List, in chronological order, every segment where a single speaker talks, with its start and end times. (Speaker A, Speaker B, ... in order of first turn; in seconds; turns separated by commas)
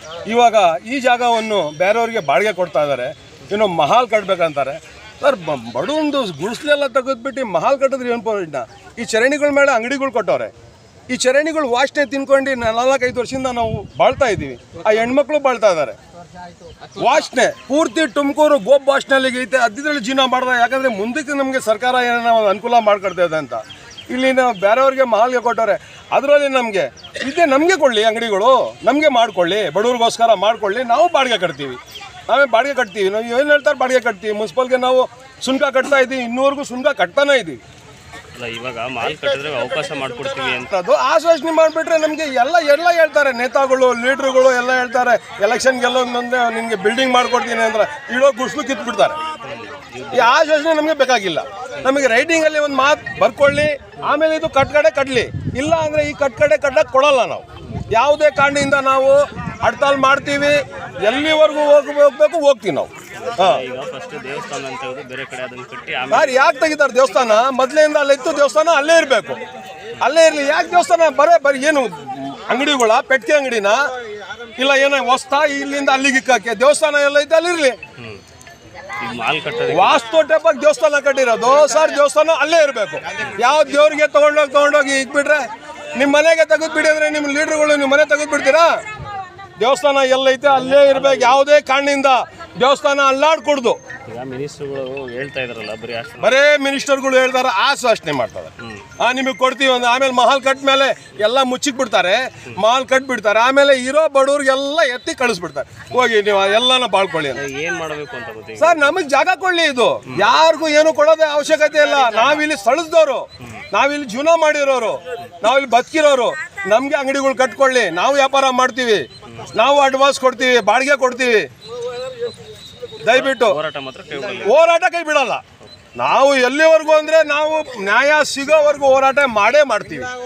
Speaker A: 0.2-10.5, Speaker A: 11.1-15.9, Speaker A: 16.9-37.6, Speaker B: 38.3-40.7, Speaker A: 40.7-49.2, Speaker B: 49.4-50.3, Speaker A: 50.1-63.6, Speaker B: 63.2-66.4, Speaker A: 66.1-69.4, Speaker A: 70.0-73.8, Speaker A: 74.6-77.8, Speaker B: 79.0-80.0, Speaker A: 79.7-85.4, Speaker A: 86.0-88.7, Speaker A: 89.6-93.8, Speaker B: 90.5-91.4, Speaker B: 94.1-96.3, Speaker A: 96.2-107.4, Speaker B: 107.4-108.9, Speaker A: 108.6-121.4, Speaker A: 123.0-123.6, Speaker B: 123.1-124.6, Speaker A: 124.4-125.4, Speaker A: 126.0-130.1